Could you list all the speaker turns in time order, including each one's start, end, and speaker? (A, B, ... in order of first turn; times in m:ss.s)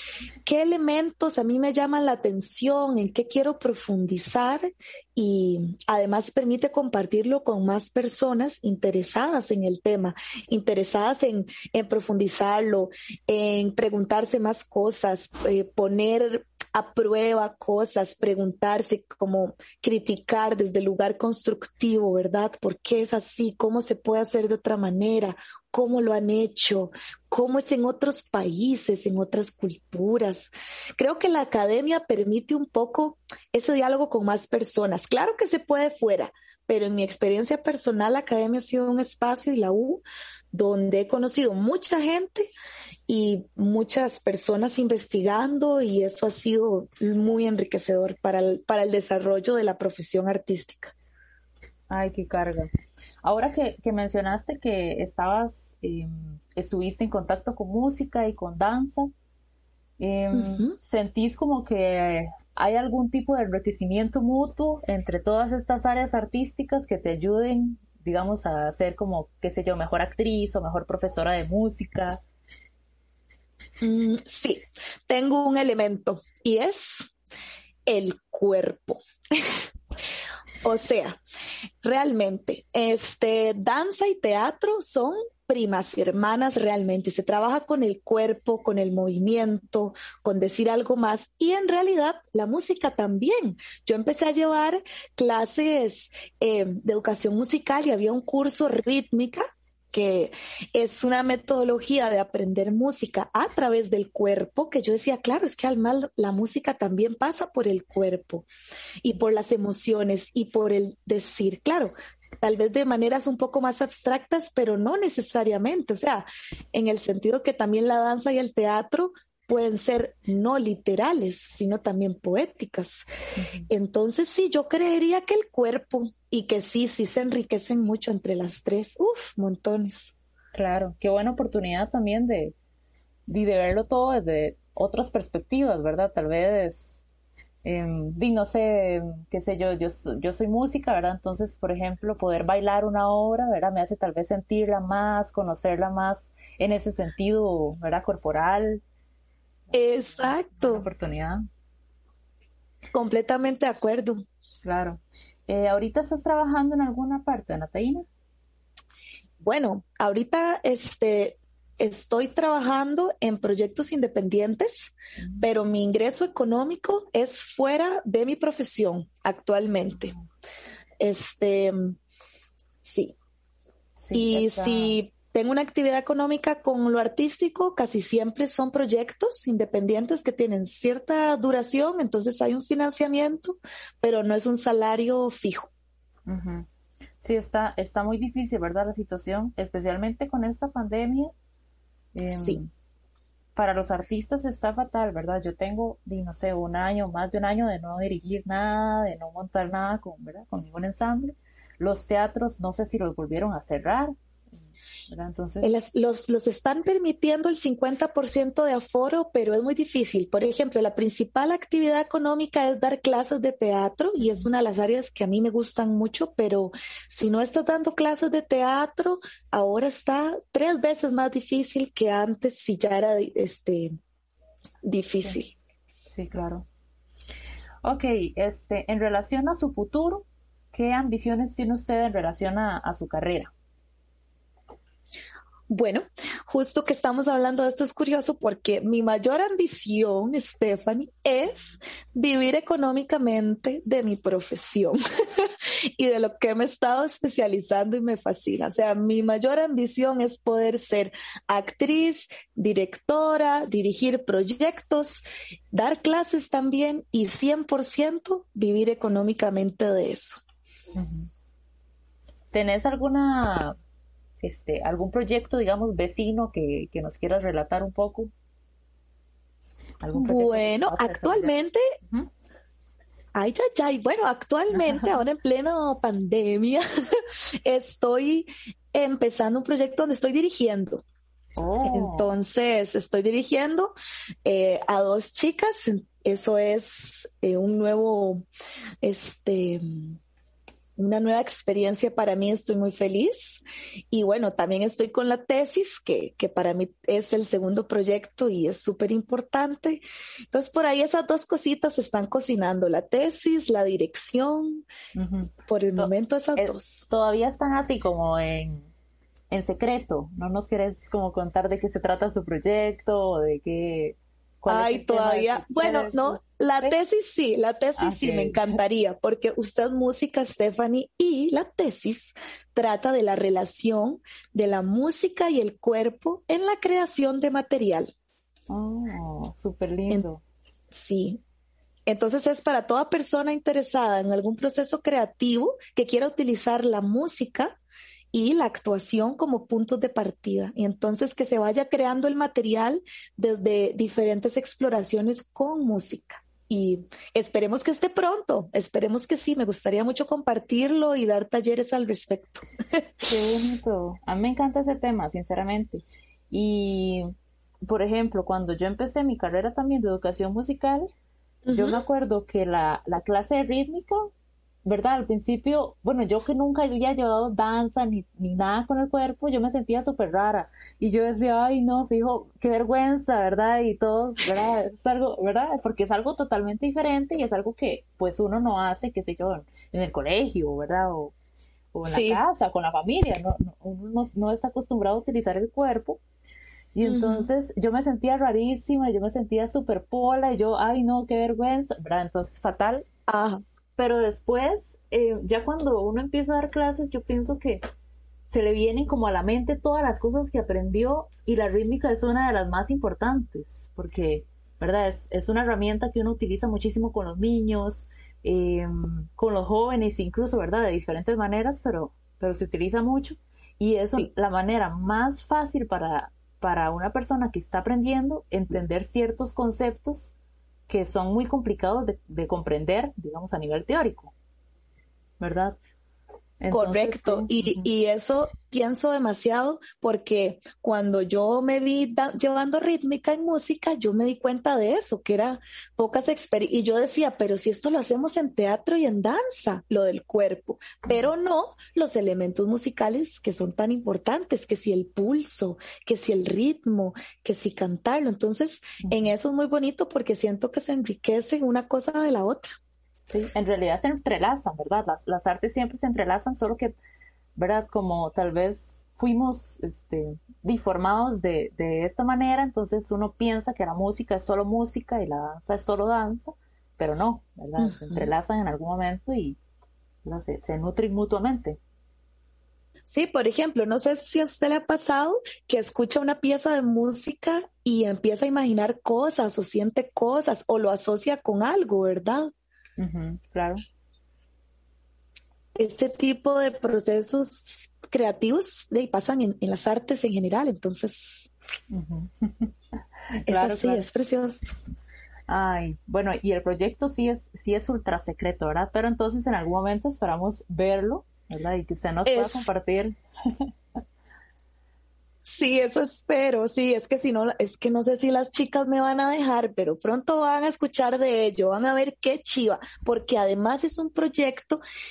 0:00.5-0:42.5 A
0:43.1-0:50.9 A
0:51.9-0:52.7 B
0:53.2-0:59.1 B
1:00.0-1:12.2 B
1:00.3-1:00.8 A
1:13.8-1:17.1 A
1:17.9-1:19.5 A
1:20.6-1:21.2 A
1:21.8-1:48.5 A
1:49.0-2:03.1 A
2:03.4-2:03.7 B
2:03.7-2:10.1 A
2:10.6-2:12.6 B
2:13.3-2:17.0 B
2:17.6-2:28.8 B
2:29.7-2:30.9 A
2:30.1-2:31.4 B
2:32.9-2:34.2 A
2:34.6-2:38.1 B
2:39.4-2:50.1 A
2:51.0-2:51.9 A
2:52.8-2:53.2 A
2:54.0-2:55.0 B
2:54.1-3:05.7 A
3:06.3-3:06.7 B
3:07.2-3:11.3 B
3:12.2-3:12.7 B
3:12.3-3:12.6 A
3:13.6-3:24.1 B
3:25.1-3:25.7 B
3:25.6-3:43.9 A
3:34.2-3:34.5 B
3:44.8-3:45.5 A
3:46.1-3:46.6 B
3:47.8-3:53.5 B
3:55.7-4:20.4 A
4:20.9-4:21.3 B
4:22.5-4:23.8 B
4:24.4-4:28.3 B
4:30.0-4:31.5 B
4:30.1-4:31.8 A
4:33.4-4:41.0 A
4:34.8-4:35.1 B
4:41.6-4:42.3 B
4:41.8-4:43.9 A
4:44.4-4:48.5 A
4:49.0-4:50.2 A
4:51.0-5:04.8 A
5:05.2-5:08.9 B
5:05.7-5:07.1 A
5:09.5-5:17.0 B
5:14.7-5:28.1 A
5:18.0-5:18.8 B
5:28.7-5:30.4 B
5:30.9-5:31.4 A
5:32.1-5:37.8 A
5:38.3-5:52.6 A
5:53.2-5:57.3 B
5:57.8-6:01.1 B
6:01.6-6:02.0 A
6:01.7-6:04.3 B
6:04.8-6:21.3 B
6:21.9-6:26.2 B
6:22.0-6:22.4 A
6:26.9-6:33.0 B
6:27.0-6:27.5 A
6:33.3-6:33.6 A
6:34.0-6:37.8 B
6:38.5-7:00.3 B
7:00.9-7:04.3 B
7:05.4-7:05.8 B
7:06.6-7:07.9 B
7:06.7-7:32.7 A
7:29.0-7:29.3 B
7:33.3-7:37.0 B
7:37.6-7:49.6 B
7:47.8-7:48.3 A
7:50.2-7:51.8 B
7:53.1-8:02.5 A
8:03.0-8:03.8 B
8:05.8-8:11.5 A
8:11.9-8:12.7 B
8:13.5-8:14.1 B
8:13.5-8:14.7 A
8:15.5-8:23.7 B
8:22.3-8:22.7 A
8:25.4-8:34.8 A